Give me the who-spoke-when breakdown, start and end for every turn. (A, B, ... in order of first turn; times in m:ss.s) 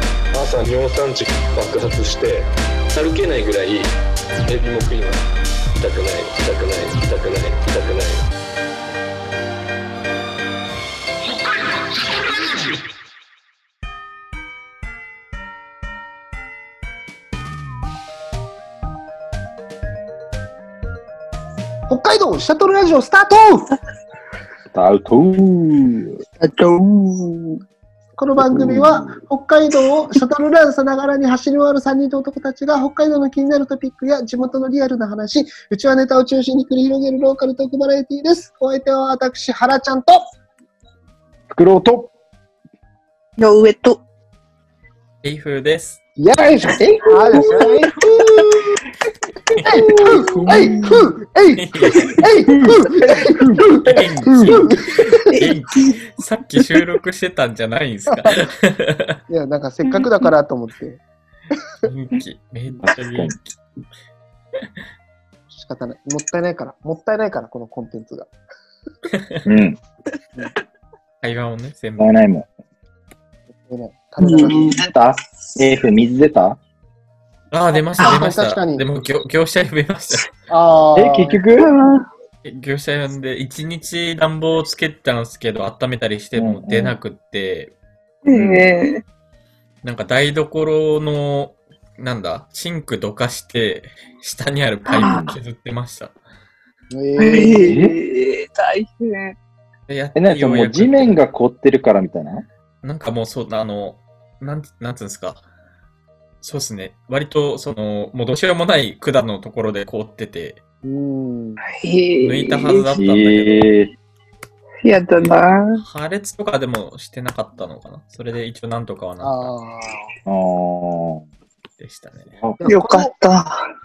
0:00.3-0:03.9 A
0:04.5-0:05.2 A
0:05.8-0:08.3 A
0:21.9-0:23.7 B
0:24.7-0:26.2 C
0:26.4-0:27.6 B
0:28.2-0:40.2 B
0:28.4-0:29.2 C
0:41.5-0:42.1 C
0:43.4-0:44.0 D
0:45.2-0:46.0 E
0:46.2-0:48.7 B
0:46.8-0:48.8 C
0:47.3-0:47.7 D
0:49.5-0:51.1 C
0:49.6-0:55.4 B
0:50.2-0:50.7 E
0:51.6-0:52.2 E
0:52.9-0:54.6 C
0:53.8-0:59.2 E
0:58.1-0:58.4 B
0:59.3-1:01.0 B
1:01.8-1:03.6 E
1:02.8-1:03.3 C
1:05.5-1:08.3 B
1:09.4-1:09.8 C
1:11.2-1:12.1 E
1:12.0-1:12.5 C
1:13.6-1:14.8 B
1:14.2-1:14.8 D
1:14.6-1:16.6 C
1:17.5-1:20.3 E
1:18.0-1:18.8 B
1:20.5-1:21.4 B
1:20.9-1:21.7 C
1:21.6-1:22.1 D
1:22.4-1:27.7 E
1:26.3-1:27.0 C
1:28.2-1:29.0 D
1:28.3-1:28.7 C
1:29.8-1:36.2 E
1:34.8-1:35.2 D
1:35.0-1:35.3 C
1:36.9-1:37.8 B
1:37.2-1:39.4 D
1:37.6-1:38.0 C
1:39.9-1:41.2 E
1:40.2-1:42.4 C
1:42.8-1:45.4 E
1:46.4-1:50.6 E
1:50.8-1:51.6 B
1:51.6-1:52.8 D
1:52.2-1:53.7 E
1:52.6-1:53.9 C
1:54.8-1:55.8 D
1:55.2-1:59.5 E
1:59.2-2:00.1 B
2:00.2-2:01.2 C
2:01.8-2:02.4 E
2:02.6-2:03.1 B
2:02.6-2:03.6 D